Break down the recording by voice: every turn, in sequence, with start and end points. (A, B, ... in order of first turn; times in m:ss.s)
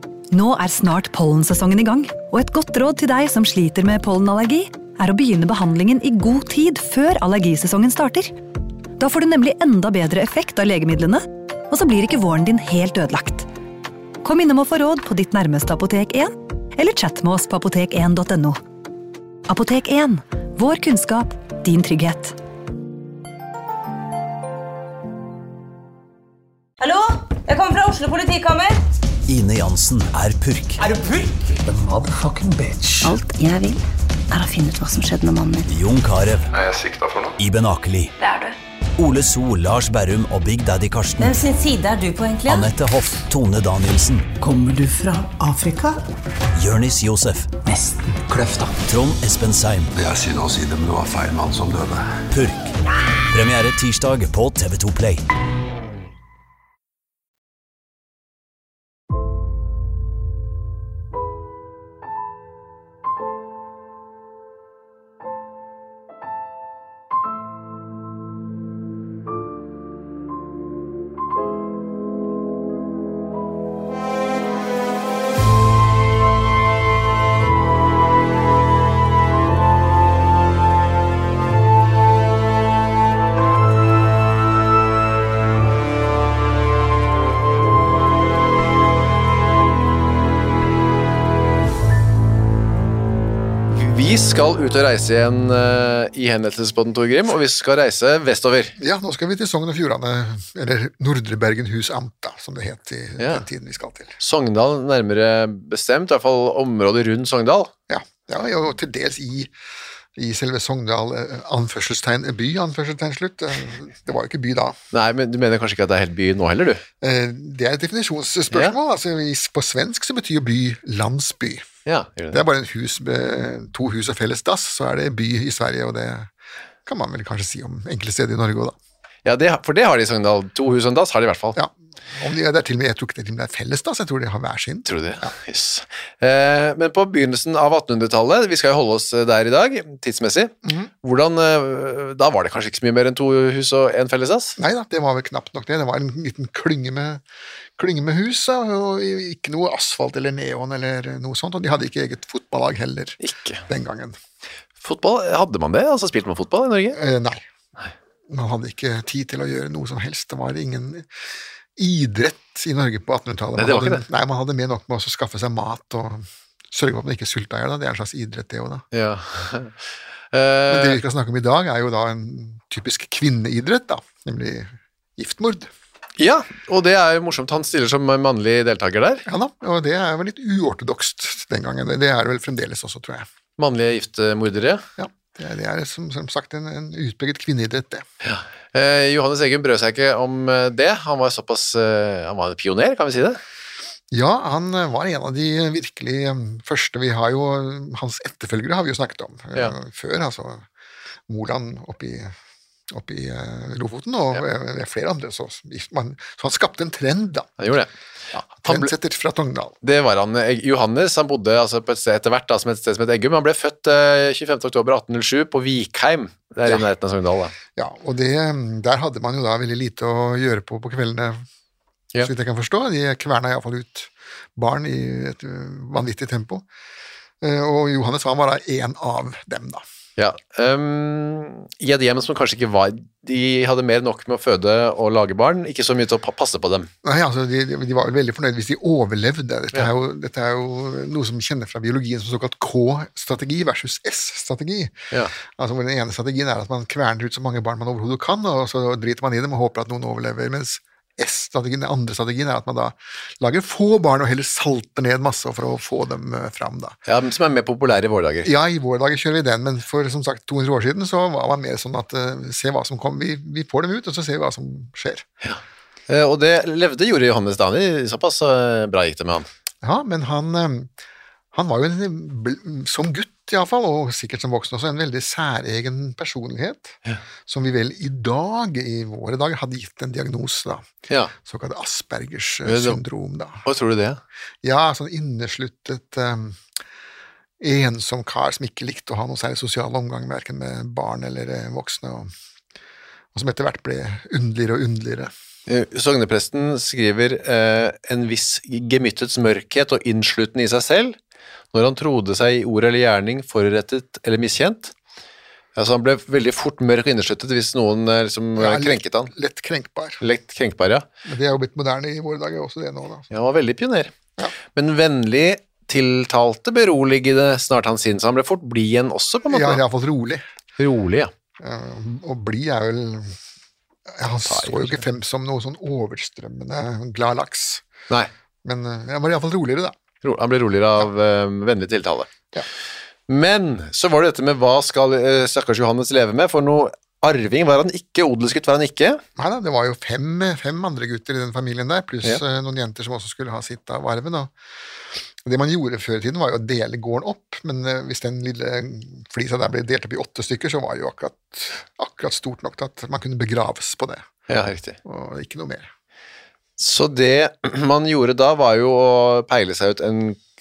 0:00.3-0:08.3 A
0:09.0-0:13.5 A
0:14.2-0:18.6 A
0:19.5-0:22.4 A
0:26.8-0:28.8 B
0:29.2-0:30.8 C
0:31.6-0:33.2 D
0:33.0-0:35.7 E
0:35.7-0:36.5 C
0:36.5-0:37.4 F
0:37.4-0:38.1 C
0:38.2-0:38.6 B
0:39.0-0:41.4 C
0:41.2-0:42.7 B
0:42.5-0:44.3 C
0:44.4-0:46.0 D
0:46.6-0:47.5 C
0:47.6-0:48.9 D
0:48.9-0:49.9 C
0:50.0-0:52.2 F
0:52.3-0:52.8 C
0:53.3-0:55.2 C
1:33.7-1:38.7 G
1:38.8-1:44.1 H
1:43.2-1:43.4 G
1:44.2-1:47.7 G
1:47.9-1:49.5 H
1:50.2-1:54.8 H
1:54.9-1:56.8 G
1:57.0-2:01.7 H
2:01.8-2:02.4 G
2:02.3-2:06.3 H
2:06.8-2:08.8 H
2:09.2-2:11.6 G
2:11.6-2:15.3 H
2:14.9-2:24.6 G
2:20.6-2:20.9 H
2:24.6-2:27.2 H
2:27.8-2:33.2 H
2:33.2-2:33.6 G
2:33.7-2:34.2 H
2:34.8-2:37.0 G
2:36.9-2:37.4 H
2:38.3-2:41.1 H
2:41.8-2:48.8 H
2:43.6-2:44.0 G
2:48.9-2:49.8 G
2:50.3-2:51.0 G
2:50.7-2:55.7 H
2:56.2-2:59.2 G
2:59.2-3:03.3 H
3:03.6-3:04.8 G
3:05.0-3:08.1 H
3:08.2-3:13.4 G
3:14.1-3:20.7 H
3:21.3-3:22.4 H
3:22.9-3:27.5 H
3:27.6-3:27.9 G
3:28.3-3:29.8 H
3:28.6-3:28.9 G
3:29.8-3:37.5 G
3:37.8-3:41.4 H
3:42.2-3:46.6 H
3:47.4-3:49.8 H
3:50.2-3:56.9 G
3:57.0-4:17.0 H
4:17.1-4:18.5 G
4:18.4-4:25.2 H
4:25.4-4:29.5 G
4:29.8-4:30.9 H
4:31.5-4:40.9 H
4:41.4-4:43.6 H
4:42.6-4:43.0 G
4:43.6-4:44.2 G
4:44.6-4:46.6 H
4:47.6-4:52.3 H
4:53.3-4:55.3 H
4:55.7-5:01.2 G
5:01.7-5:04.9 G
5:05.8-5:09.3 G
5:08.6-5:10.2 H
5:10.2-5:11.1 G
5:11.2-5:13.3 H
5:13.3-5:14.1 G
5:14.7-5:19.8 G
5:19.5-5:20.4 H
5:20.8-5:21.3 G
5:21.6-5:23.4 H
5:24.1-5:27.8 H
5:24.4-5:25.0 G
5:28.6-5:30.0 H
5:30.2-5:32.3 G
5:33.3-5:39.2 G
5:39.4-5:44.5 H
5:45.4-5:54.3 H
5:54.5-5:55.0 G
5:55.0-5:55.9 H
5:56.8-6:00.4 G